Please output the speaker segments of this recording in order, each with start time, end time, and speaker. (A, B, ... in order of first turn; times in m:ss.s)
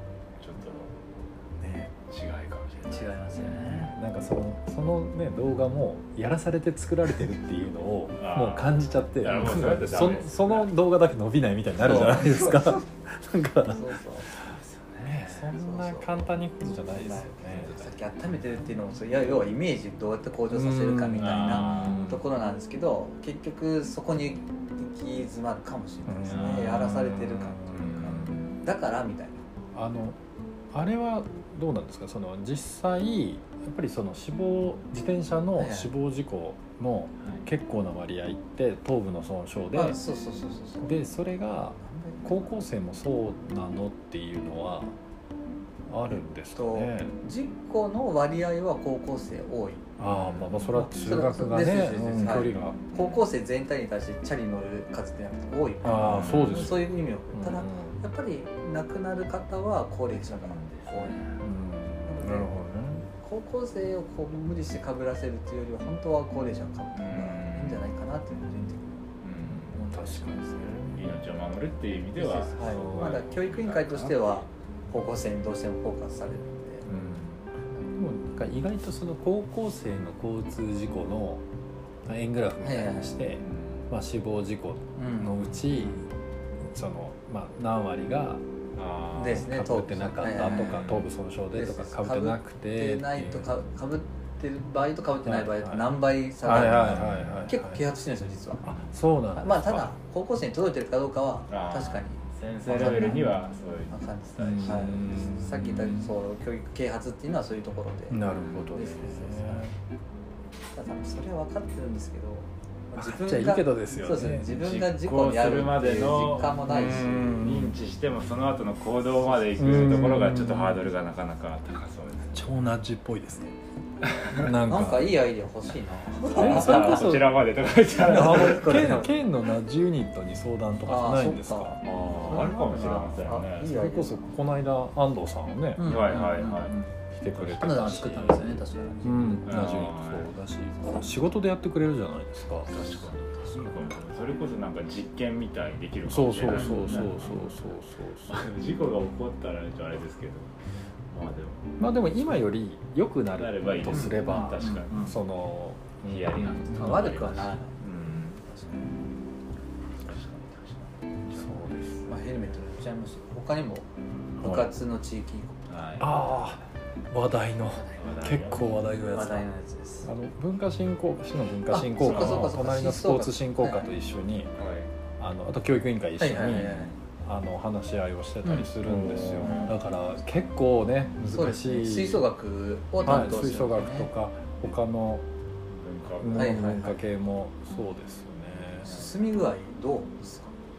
0:00.4-0:00.9 A
0:01.6-0:03.9 A
0:02.9-0:03.9 B
0:03.6-0:14.4 C
0:08.2-0:10.7 A
0:11.8-0:12.8 B
0:13.6-0:14.3 B
0:14.4-0:15.5 A
0:15.0-0:17.9 C
0:15.5-0:16.3 B
0:16.9-0:29.4 B
0:20.5-0:22.2 C
0:21.2-0:22.0 A
0:26.0-0:28.3 C
0:26.3-0:26.8 A
0:27.7-0:28.5 A
0:29.7-0:30.2 C
0:30.7-0:40.0 C
0:35.6-0:35.9 B
0:39.7-0:41.0 B
0:40.8-0:44.9 C
0:41.8-0:42.6 B
0:45.9-0:47.2 C
0:46.1-0:49.9 B
0:50.0-0:52.8 C
0:50.0-0:50.7 A
0:50.7-1:01.2 B
0:52.4-0:53.2 A
0:55.8-0:58.0 C
0:56.0-0:56.7 A
1:00.3-1:01.4 A
1:01.4-1:03.0 C
1:02.0-1:09.0 B
1:06.9-1:07.8 A
1:09.2-1:09.8 A
1:09.4-1:11.2 C
1:09.7-1:10.9 B
1:10.9-1:14.5 A
1:12.2-1:16.9 B
1:12.6-1:13.2 C
1:16.8-1:17.4 A
1:16.9-1:17.2 C
1:17.9-1:21.4 C
1:22.0-1:28.4 C
1:22.6-1:23.2 B
1:23.4-1:23.9 A
1:25.0-1:25.6 B
1:28.7-1:29.4 A
1:29.2-1:30.9 B
1:29.2-1:33.5 C
1:30.6-1:31.1 A
1:31.5-1:38.8 B
1:35.2-1:35.8 C
1:36.4-1:37.8 C
1:36.5-1:37.4 A
1:38.6-1:39.9 C
1:39.3-1:43.4 B
1:41.5-1:45.0 A
1:42.7-1:43.3 C
1:43.9-1:49.7 B
1:44.4-1:46.1 C
1:48.1-1:49.8 C
1:48.3-1:48.7 A
1:50.7-1:57.5 B
1:52.9-1:54.5 C
1:54.5-2:02.5 A
1:56.7-1:57.7 C
1:59.6-2:00.9 C
2:02.3-2:03.5 C
2:04.2-2:04.5 A
2:04.3-2:05.1 C
2:04.4-2:07.1 B
2:06.2-2:07.4 C
2:06.2-2:09.1 A
2:07.9-2:13.0 C
2:08.1-2:09.2 B
2:10.8-2:14.3 B
2:11.8-2:13.8 A
2:13.6-2:15.9 C
2:15.8-2:16.9 B
2:15.8-2:16.7 A
2:17.1-2:23.0 C
2:17.3-2:18.1 A
2:17.6-2:19.7 B
2:19.4-2:20.3 A
2:22.6-2:27.6 A
2:26.1-2:28.4 C
2:26.5-2:27.0 B
2:28.3-2:30.5 A
2:31.1-2:31.8 A
2:31.8-2:37.1 C
2:33.4-2:35.1 A
2:33.9-2:35.1 B
2:36.0-2:38.4 A
2:36.7-2:39.0 B
2:40.0-2:42.0 A
2:41.4-2:42.0 C
2:42.0-2:43.8 B
2:44.4-2:44.7 C
2:44.4-2:45.6 B
2:45.7-2:46.2 A
2:46.0-2:49.5 C
2:48.0-2:48.7 A
2:49.0-2:50.1 B
2:50.0-2:54.5 C
2:51.7-2:53.9 B
2:52.0-2:52.5 A
2:54.6-2:54.9 A
2:55.2-3:02.2 C
2:56.2-2:57.0 B
2:58.4-2:58.7 B
2:58.8-2:59.7 A
2:59.3-2:59.7 B
3:01.3-3:04.1 B
3:03.0-3:05.2 C
3:05.7-3:06.6 A
3:06.2-3:09.0 C
3:06.3-3:07.0 B
3:08.8-3:10.5 B